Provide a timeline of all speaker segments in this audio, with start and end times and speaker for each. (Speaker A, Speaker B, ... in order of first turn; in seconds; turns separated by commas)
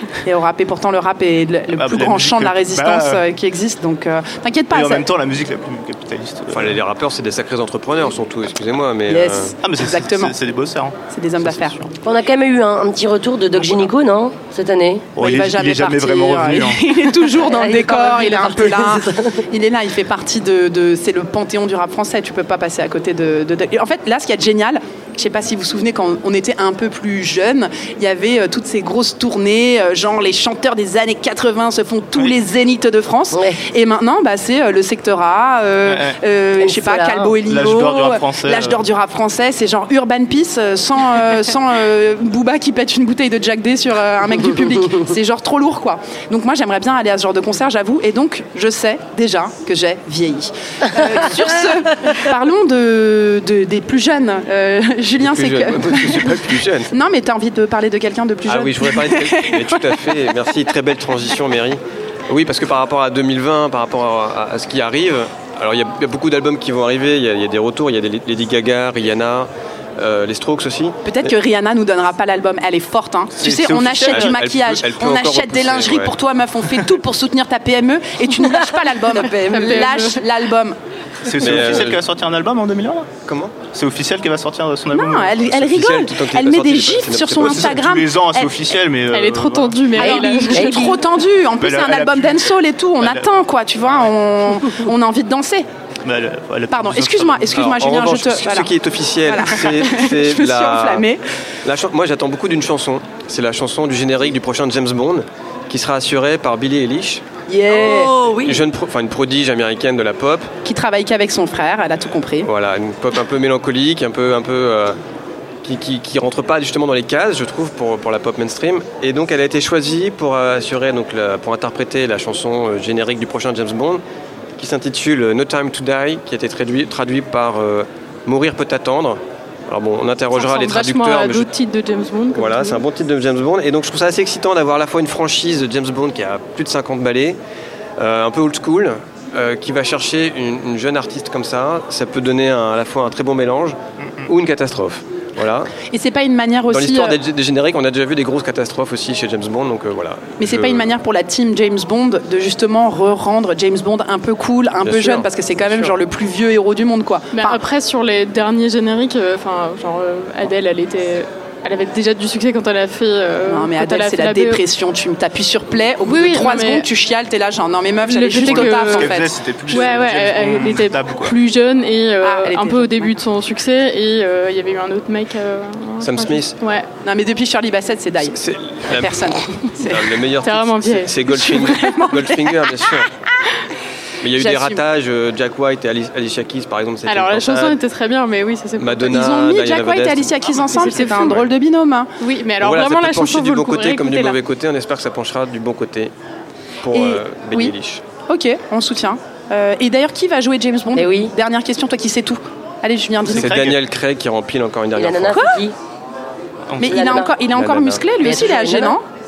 Speaker A: 0.2-5.0, Speaker B: 1.7-3.2, Speaker B: 4.7-6.8, Speaker C: 6.5-9.5, Speaker A: 9.1-10.3, Speaker B: 9.6-11.9, Speaker A: 11.1-11.8, Speaker D: 12.0-15.1, Speaker B: 15.2-17.0, Speaker A: 15.2-60.0, Speaker D: 17.4-19.4, Speaker D: 33.3-33.6, Speaker B: 35.8-36.2, Speaker D: 36.6-37.4, Speaker B: 37.4-38.8, Speaker C: 55.2-56.9, Speaker C: 58.5-71.3, Speaker A: 71.0-80.8, Speaker B: 73.3-74.4, Speaker C: 74.0-76.1, Speaker D: 79.2-79.8, Speaker E: 79.3-80.2, Speaker B: 81.2-83.1, Speaker C: 81.4-82.0, Speaker C: 83.2-83.5, Speaker B: 83.7-85.3, Speaker A: 84.9-88.5, Speaker C: 85.4-87.8, Speaker B: 87.4-90.0, Speaker E: 89.1-90.9, Speaker A: 90.0-95.7, Speaker D: 90.0-91.0, Speaker B: 91.6-93.3, Speaker B: 96.0-97.7, Speaker A: 96.7-98.7, Speaker C: 97.5-101.0, Speaker A: 99.2-101.2, Speaker C: 101.6-107.2, Speaker A: 107.5-108.1, Speaker D: 107.7-108.6, Speaker C: 108.4-110.5, Speaker A: 110.6-112.5, Speaker C: 112.4-115.0, Speaker C: 115.6-124.0, Speaker C: 124.6-131.5, Speaker E: 130.3-132.8, Speaker C: 132.3-137.4, Speaker C: 138.0-145.7, Speaker B: 144.0-144.3, Speaker A: 145.9-147.2, Speaker C: 146.7-150.9, Speaker A: 150.4-157.6, Speaker C: 154.8-156.0, Speaker E: 157.3-164.6, Speaker A: 163.5-169.3, Speaker E: 166.0-166.9, Speaker E: 168.1-169.2, Speaker B: 168.3-171.3, Speaker E: 169.7-176.9, Speaker A: 172.2-173.1, Speaker C: 176.0-176.6, Speaker A: 177.0-180.2, Speaker C: 178.2-183.1, Speaker E: 180.4-181.2, Speaker A: 181.2-183.0, Speaker C: 184.2-187.8, Speaker A: 184.3-184.8, Speaker E: 187.1-189.2, Speaker C: 188.8-191.5, Speaker A: 189.1-192.1, Speaker E: 190.8-191.4, Speaker E: 192.2-194.4, Speaker C: 192.6-196.1, Speaker C: 196.8-198.0, Speaker A: 196.9-197.7, Speaker A: 198.3-203.6, Speaker D: 200.9-201.3, Speaker B: 203.3-203.8, Speaker C: 203.3-205.4, Speaker D: 204.9-205.8, Speaker B: 206.7-207.0, Speaker A: 206.8-209.0, Speaker D: 206.8-207.3, Speaker C: 207.5-208.0, Speaker D: 208.2-209.0